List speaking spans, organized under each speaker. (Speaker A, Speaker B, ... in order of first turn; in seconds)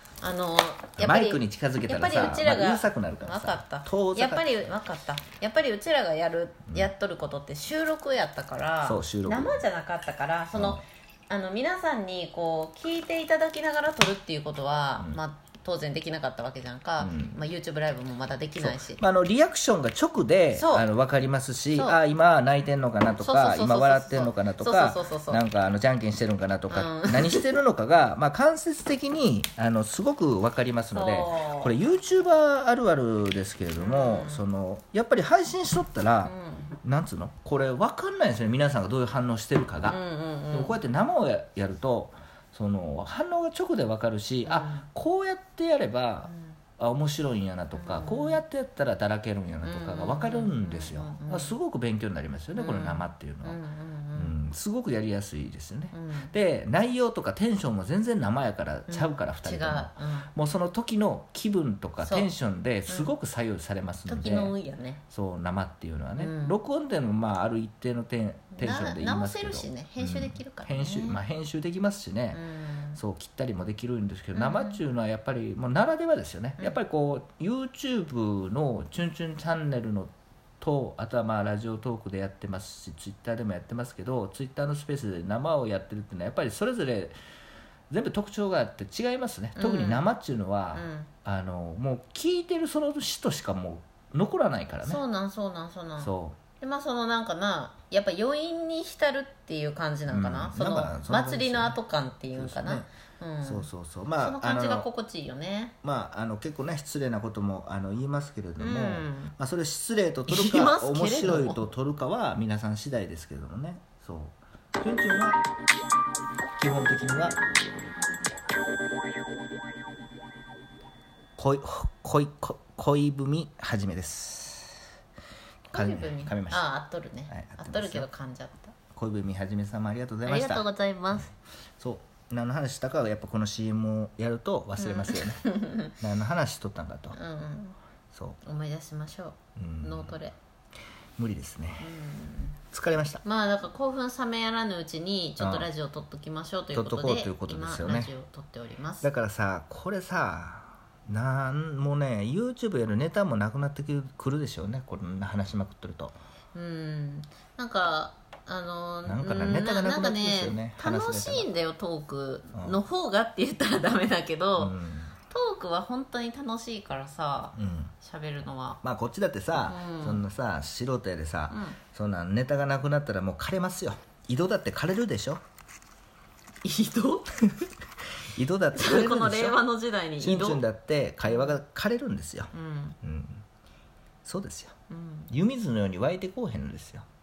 Speaker A: 0.2-19.0, 20.5-20.9, 21.7-22.0, 23.2-25.4, 26.7-27.5, 30.9-31.8, 33.8-34.5, 36.2-36.7, 39.9-40.8, 44.5-44.9, 47.8-48.4, 49.6-51.5, 52.6-54.3, 55.9-56.3, 58.9-60.3, 62.0-62.3, 64.1-65.0, 66.2-66.6, 68.6-71.2, 72.3-73.0, 74.3-74.8, 89.6-90.1, 90.7-91.1, 94.8-103.7, 104.2-105.8, 108.6-109.3, 110.3-111.7, 125.7-128.8, 130.2-131.3, 134.8-135.9, 137.1-137.8, 138.4-140.3, 141.8-142.6, 143.2-149.1, 156.5-164.8, 165.3-168.8, 169.5-170.2, 171.5-171.8, 176.6-177.4, 178.7-180.7, 181.2-181.5, 182.5-183.0, 184.9-185.3
Speaker B: 1.0-4.7, 8.8-9.7, 10.5-10.8, 17.0-17.4, 18.6-40.0, 40.5-53.6, 54.1-64.5, 65.1-72.4, 73.0-87.2, 87.9-95.0, 96.0-96.4, 100.1-101.8, 102.3-102.9, 103.4-104.9, 105.8-115.4, 116.6-117.4, 121.4-124.8, 125.7-126.7, 127.3-128.1, 128.9-131.3, 131.8-137.2, 138.1-138.4, 139.6-140.2, 141.2-142.0, 142.6-143.2, 145.4-145.7, 146.7-148.1, 149.0-156.2, 159.1-161.5, 162.5-162.8, 164.6-165.1, 167.6-167.9, 168.8-175.4, 178.3-179.6, 180.2-182.5, 183.0-183.4, 184.2-184.7, 185.3-187.1